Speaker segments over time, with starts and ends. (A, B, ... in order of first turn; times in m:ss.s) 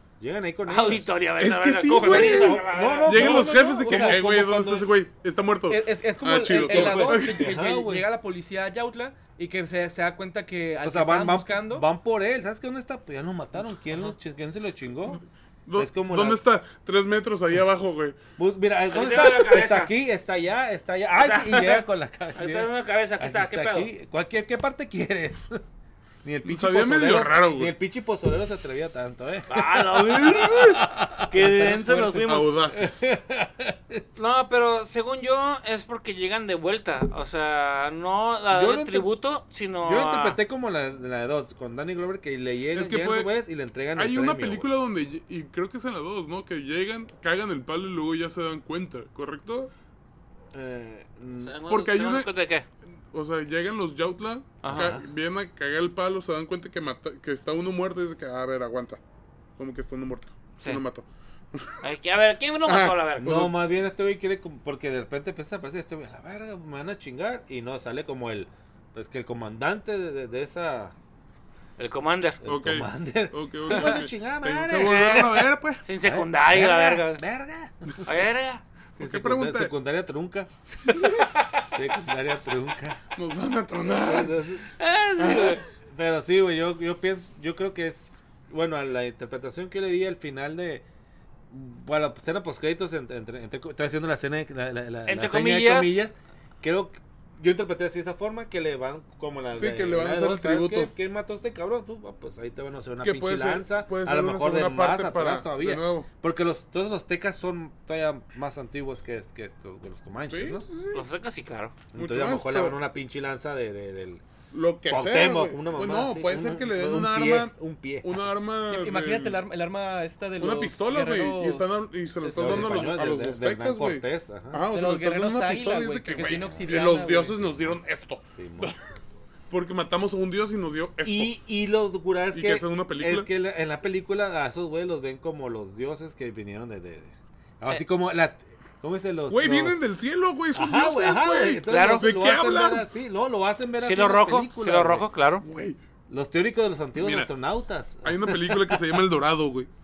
0:00.2-0:01.1 A
0:00.6-0:03.3 B
0:01.4-0:07.6 C
0:01.9-0:04.9 A
0:03.1-0:04.2 D
0:05.7-0:11.8 D
0:06.6-0:08.1 A
0:10.8-0:15.2 A
0:15.1-0:18.2 C
0:15.8-0:16.4 A
0:18.4-0:25.6 A
0:18.9-0:19.9 B
0:21.2-0:23.9 B
0:26.2-0:34.0 A
0:26.4-0:27.7 C
0:29.5-0:32.5 B
0:32.2-0:33.1 C
0:34.2-0:40.4 B
0:38.5-0:39.1 A
0:39.8-0:44.7 A
0:42.7-0:43.3 C
0:43.9-0:49.7 C
0:50.5-0:51.6 A
0:51.4-0:52.6 B
0:51.7-0:52.3 C
0:53.1-0:59.0 C
0:54.6-0:54.9 B
0:54.7-0:55.0 A
0:59.6-1:01.8 C
1:01.8-1:03.5 B
1:02.6-1:03.5 C
1:03.2-1:10.9 A
1:11.8-1:12.4 B
1:12.4-1:15.2 A
1:12.4-1:15.8 C
1:13.7-1:14.0 B
1:14.8-1:17.2 B
1:16.0-1:18.1 A
1:18.0-1:18.6 B
1:19.0-1:19.7 C
1:19.0-1:23.0 A
1:20.9-1:22.4 C
1:23.1-1:24.4 C
1:23.8-1:24.7 A
1:24.8-1:25.6 B
1:25.2-1:25.6 C
1:25.6-1:30.8 A
1:31.5-1:50.6 A
1:35.1-1:36.1 B
1:39.6-1:40.9 C
1:43.0-1:46.1 C
1:50.3-1:51.1 C
1:50.9-1:51.7 B
1:51.9-1:54.2 A
1:51.9-1:52.8 C
1:54.5-1:59.4 C
1:54.9-1:58.2 A
1:58.7-2:03.0 D
2:00.4-2:08.8 C
2:02.3-2:04.6 A
2:04.7-2:07.4 D
2:06.1-2:06.8 A
2:08.3-2:08.7 A
2:09.5-2:11.3 C
2:11.0-2:19.9 A
2:12.3-2:13.3 C
2:19.3-2:22.9 C
2:20.5-2:25.0 A
2:21.7-2:22.0 B
2:23.8-2:25.4 B
2:25.4-2:25.8 C
2:26.1-2:28.8 A
2:27.0-2:27.3 C
2:28.0-2:29.7 C